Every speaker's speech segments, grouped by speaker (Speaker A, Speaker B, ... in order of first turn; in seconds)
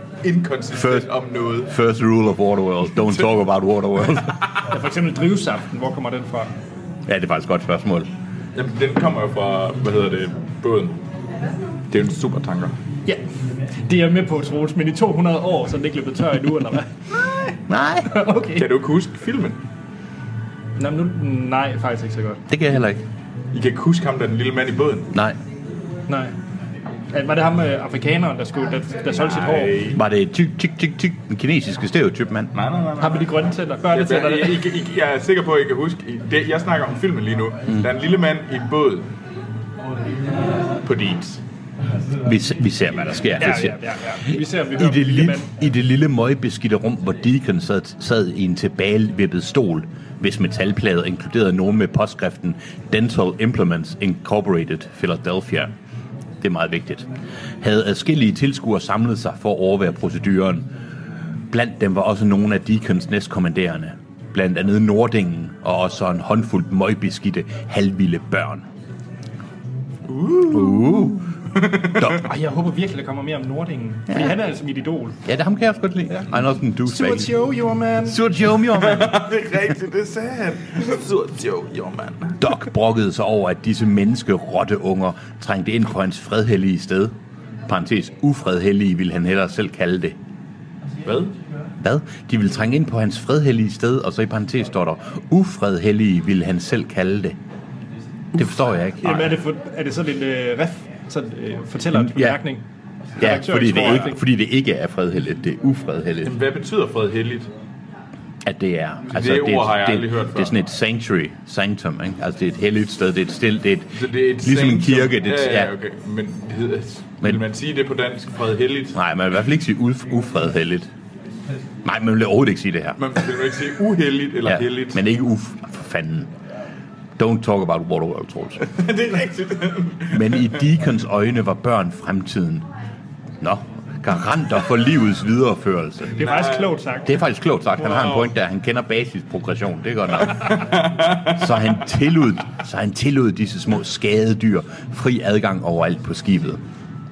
Speaker A: 0.2-1.7, 8.5-10.9, 11.9-12.7, 18.6-19.6, 23.5-25.1, 29.2-30.0, 32.5-33.3, 33.9-39.1, 40.7-41.4, 70.1-72.1, 78.7-82.4, 91.0-91.3, 106.2-107.5, 109.1-110.5, 113.9-119.0, 123.0-125.0, 128.6-130.4, 136.1-136.7, 137.8-138.3, 140.5-141.4
Speaker B: 0.7-1.1, 1.7-4.4, 7.0-8.1, 17.7-18.2, 22.5-23.0, 29.9-32.5, 42.2-55.7, 56.4-57.0, 57.6-60.7, 61.5-68.7, 70.5-71.3, 72.0-72.2, 74.1-74.3, 75.2-77.3, 78.0-79.3, 82.4-87.1, 87.7-90.2, 91.8-97.4, 98.3-99.4, 101.9-102.4, 103.2-106.3, 108.4-115.7, 118.9-120.9, 121.8-123.0, 124.4-126.3, 127.2-128.6, 130.1-132.7, 133.4-136.2, 137.0-146.6
Speaker C: 4.7-6.5, 13.8-16.9, 18.1-18.7, 20.8-22.4, 26.1-26.3, 27.1-29.9, 33.0-34.6, 43.4-45.5, 72.1-75.2, 76.1-78.2, 99.0-102.6, 103.2-104.2, 136.2-137.2